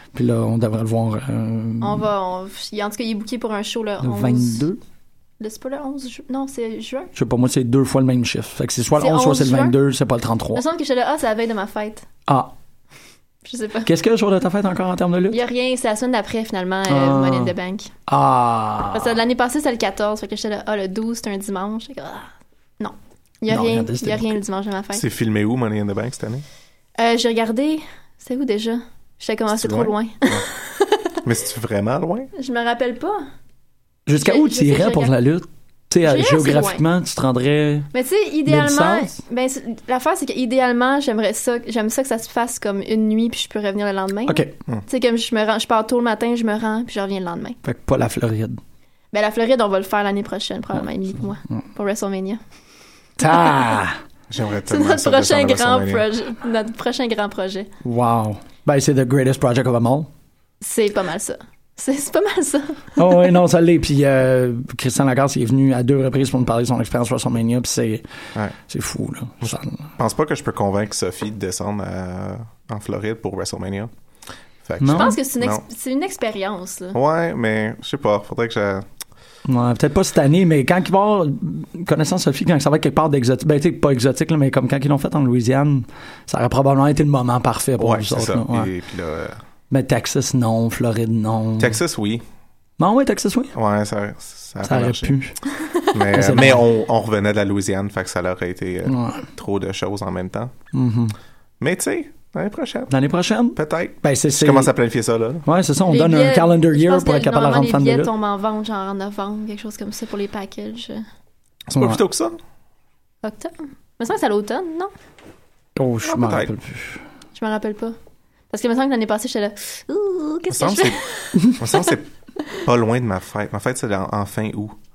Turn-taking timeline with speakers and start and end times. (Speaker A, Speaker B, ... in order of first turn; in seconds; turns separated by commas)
Speaker A: 0.1-2.1, Speaker B: 1.8-4.7, Speaker A: 4.0-4.8, Speaker B: 5.4-7.1, Speaker A: 7.1-10.6, Speaker B: 9.0-9.8, Speaker B: 10.5-12.1, Speaker A: 12.3-12.5, Speaker B: 13.4-13.9, Speaker A: 13.9-15.4, Speaker B: 15.3-17.9, Speaker A: 16.9-17.5, Speaker A: 18.1-19.2, Speaker B: 18.9-25.0, Speaker A: 23.5-24.4, Speaker C: 24.9-26.4, Speaker B: 27.0-31.1, Speaker C: 29.6-30.4, Speaker C: 31.2-32.3, Speaker B: 32.4-33.2, Speaker A: 34.1-37.9, Speaker B: 34.1-35.1, Speaker B: 36.0-36.8, Speaker B: 37.9-47.6, Speaker A: 38.5-39.2, Speaker A: 44.3-44.5, Speaker A: 47.6-48.6, Speaker B: 49.1-52.4, Speaker A: 53.2-54.0, Speaker C: 54.3-56.1, Speaker B: 54.7-57.7, Speaker A: 57.8-60.1, Speaker B: 60.6-62.9, Speaker A: 63.0-68.0, Speaker A: 68.7-69.9, Speaker C: 70.0-73.9, Speaker C: 74.6-75.6, Speaker A: 74.8-75.2, Speaker B: 74.9-77.0, Speaker C: 76.9-78.9, Speaker A: 79.5-88.7, Speaker C: 87.8-89.4, Speaker A: 89.7-91.8, Speaker C: 91.6-92.2, Speaker A: 92.8-93.5, Speaker C: 93.5-95.1, Speaker A: 94.6-95.4, Speaker C: 95.9-100.5, Speaker A: 96.1-96.7, Speaker A: 98.9-99.2, Speaker A: 100.7-101.2, Speaker C: 101.6-102.9, Speaker A: 102.9-104.7, Speaker C: 103.6-105.5, Speaker A: 105.4-108.1, Speaker B: 105.9-111.0, Speaker C: 111.7-112.4, Speaker A: 111.8-112.0, Speaker B: 113.2-114.9, Speaker A: 115.8-117.0, Speaker C: 116.0-116.5, Speaker B: 117.3-118.0, Speaker B: 118.5-121.5, Speaker C: 120.5-124.8